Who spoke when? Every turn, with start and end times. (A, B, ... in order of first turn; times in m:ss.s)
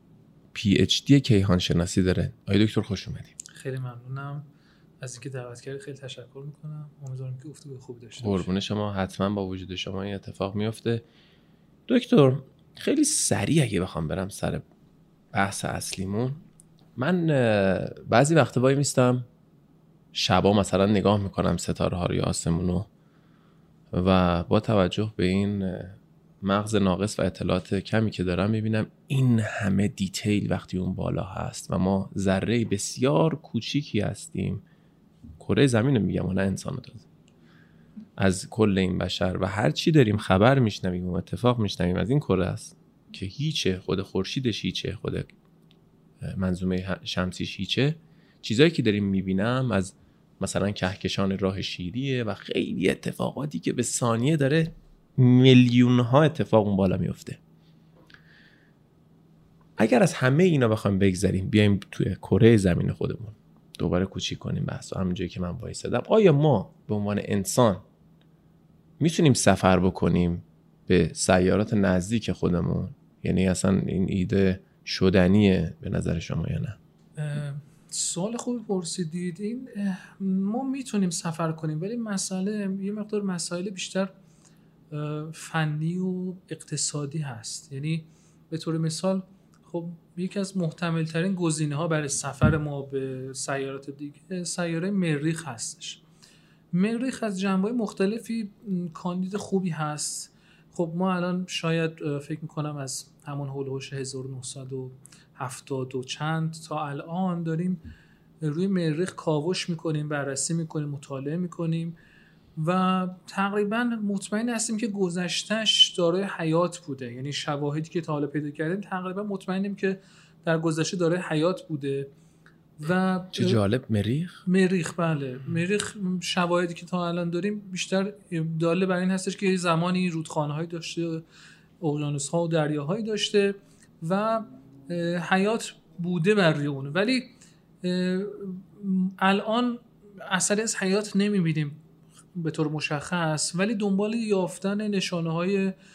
0:00.5-0:03.3 A
0:03.6-0:04.4 B
0:05.0-0:08.5 B
0:08.2-0:11.0 A
0:11.9-0:14.6 A
0:15.3-0:16.4 A
0:17.0-0:19.2 A
0:20.1-0:22.9 A
0:23.9-0:34.6 A
0:35.4-0:37.0 A
0:38.2-0:45.3 A
0:46.2-0:57.4 A
0:59.8-1:07.8 A
1:09.0-1:16.8 A
1:17.2-1:24.1 B
1:24.9-1:36.0 B
1:36.7-1:47.8 B
1:48.4-1:52.0 B
1:52.6-2:02.1 B
2:02.8-2:03.6 B
2:03.3-2:04.4 A
2:04.4-2:11.2 B
2:11.8-2:21.8 B
2:22.4-2:25.7 B